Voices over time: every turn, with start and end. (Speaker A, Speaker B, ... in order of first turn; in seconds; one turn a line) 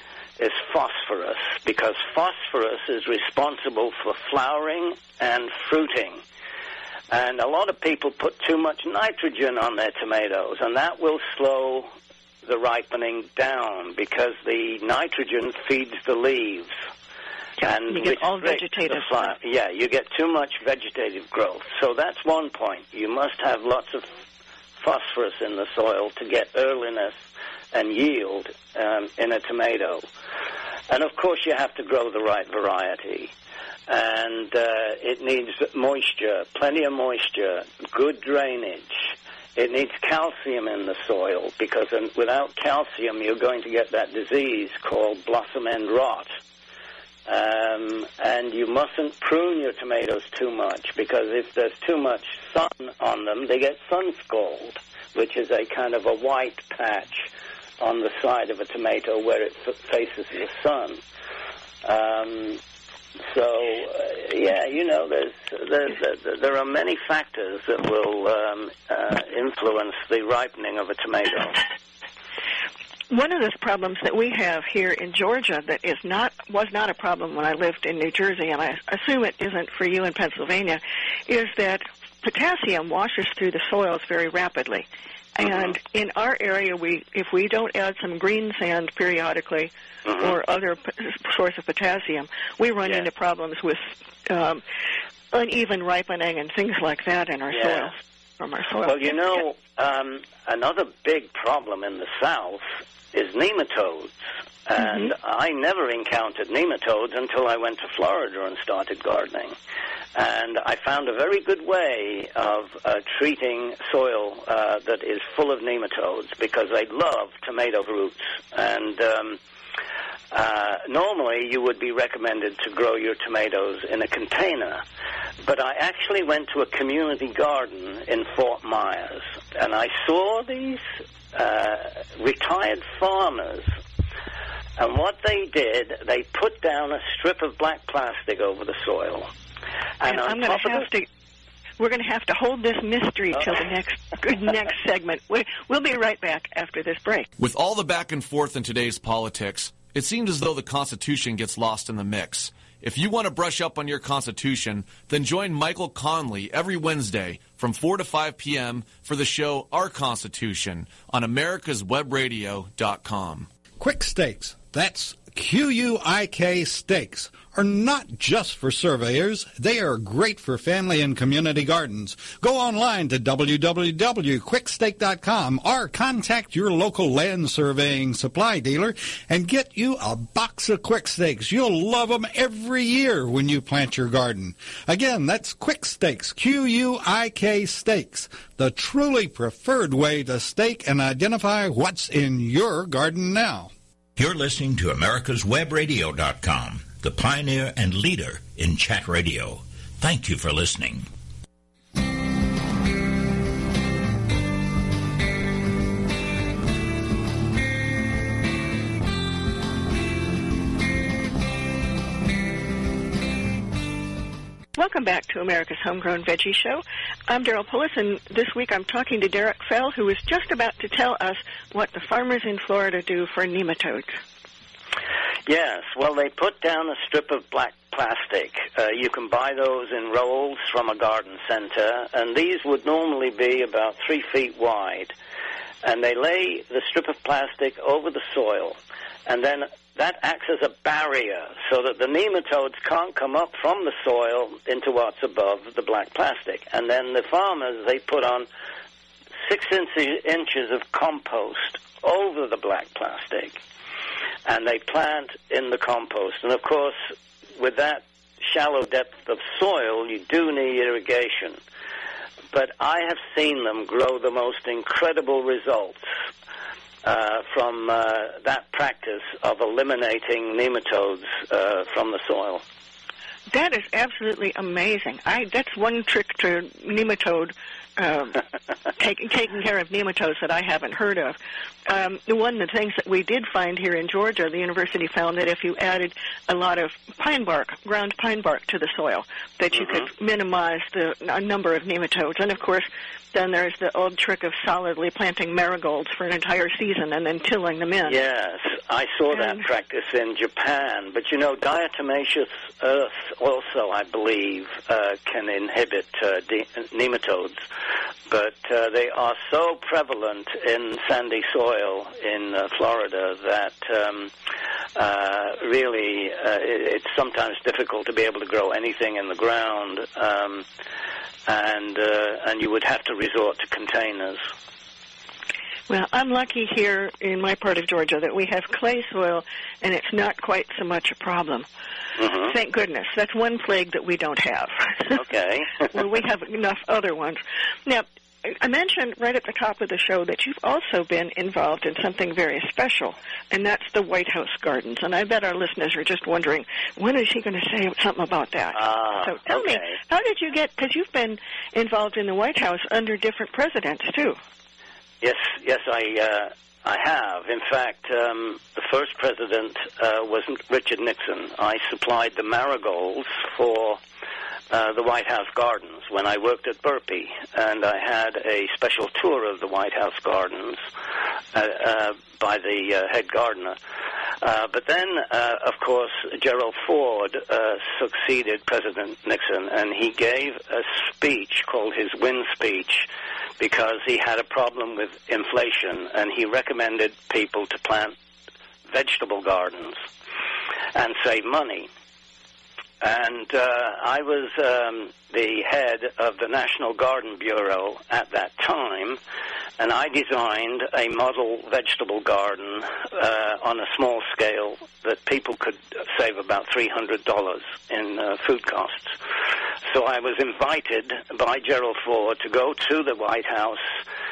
Speaker A: 0.4-6.2
Speaker A: 7.1-11.9
Speaker A: 12.5-16.7
Speaker B: 17.6-19.3
Speaker A: 17.6-24.1
Speaker A: 24.8-27.2
Speaker A: 27.7-30.1
Speaker A: 30.9-33.3
Speaker A: 33.9-46.3
Speaker A: 47.3-57.3
Speaker A: 57.8-61.0
Speaker A: 61.8-62.6
Speaker A: 63.3-71.7
Speaker B: 73.1-84.8
Speaker B: 85.4-94.6
Speaker A: 90.1-90.4
Speaker B: 95.3-99.2
Speaker A: 97.5-97.9
Speaker A: 98.8-104.2
Speaker A: 104.7-109.6
Speaker B: 104.8-105.1
Speaker A: 110.2-119.4
Speaker A: 120.3-124.8
Speaker A: 125.4-133.7
Speaker A: 134.8-139.3
Speaker A: 140.0-140.9
Speaker B: 140.1-141.1
Speaker B: 141.8-147.3
Speaker C: 147.4-163.5
Speaker D: 163.8-193.7
Speaker E: 194.2-201.1
Speaker B: 214.8-224.2
Speaker A: 225.5-235.1
Speaker A: 235.8-248.5
Speaker A: 249.4-253.6
Speaker A: 254.5-261.6
Speaker A: 262.5-266.0
Speaker A: 267.0-272.6
Speaker B: 273.5-278.4
Speaker B: 279.0-298.1
Speaker A: 298.1-307.6
Speaker A: 308.3-314.3
Speaker A: 314.9-320.6
Speaker A: 321.5-324.4
Speaker B: 325.9-331.7
Speaker A: 332.2-332.5
Speaker B: 332.4-335.2
Speaker A: 335.2-335.9
Speaker B: 335.9-354.4
Speaker A: 348.8-350.0
Speaker A: 355.2-364.0
Speaker A: 364.7-370.8
Speaker A: 371.5-373.8
Speaker A: 374.4-388.1
Speaker A: 388.9-390.0
Speaker A: 390.9-391.9
Speaker A: 393.0-399.2
Speaker A: 399.8-409.2
Speaker A: 409.9-413.9